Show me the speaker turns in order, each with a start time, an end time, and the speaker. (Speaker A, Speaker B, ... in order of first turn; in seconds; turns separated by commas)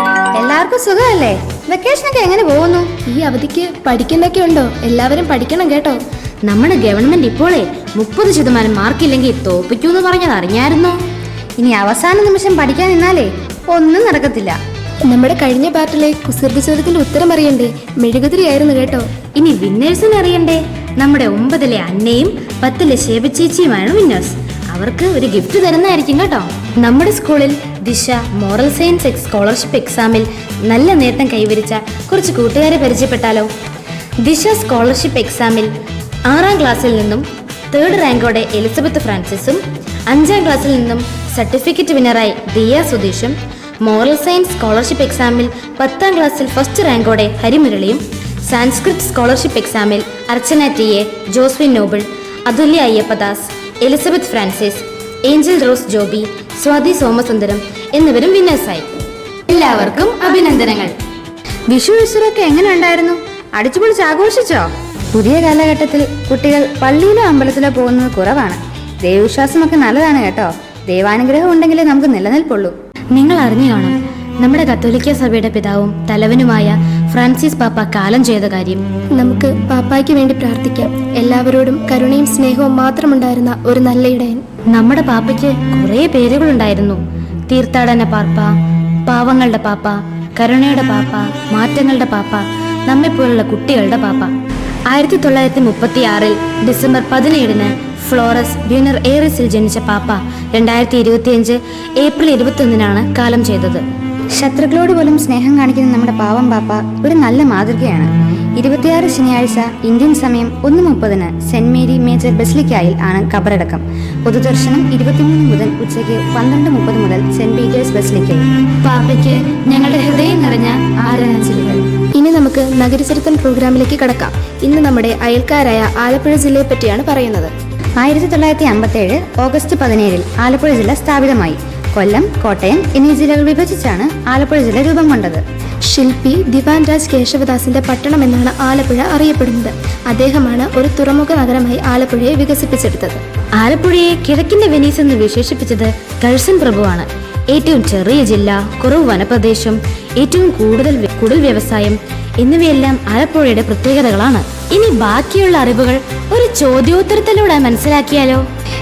Speaker A: 0.4-2.9, Speaker B: 3.1-6.0, Speaker C: 6.4-11.0, Speaker A: 11.6-14.6, Speaker B: 15.1-19.1, Speaker C: 19.4-33.5, Speaker C: 34.2-35.7, Speaker C: 36.3-58.9, Speaker C: 59.5-60.9, Speaker A: 61.7-72.8, Speaker C: 73.1-78.8, Speaker B: 79.2-84.4, Speaker C: 84.7-88.5, Speaker C: 89.1-94.3, Speaker C: 94.9-103.8, Speaker A: 104.4-118.5, Speaker C: 118.8-121.8, Speaker B: 122.2-127.5, Speaker A: 128.0-135.4, Speaker B: 135.9-143.2, Speaker C: 143.6-158.4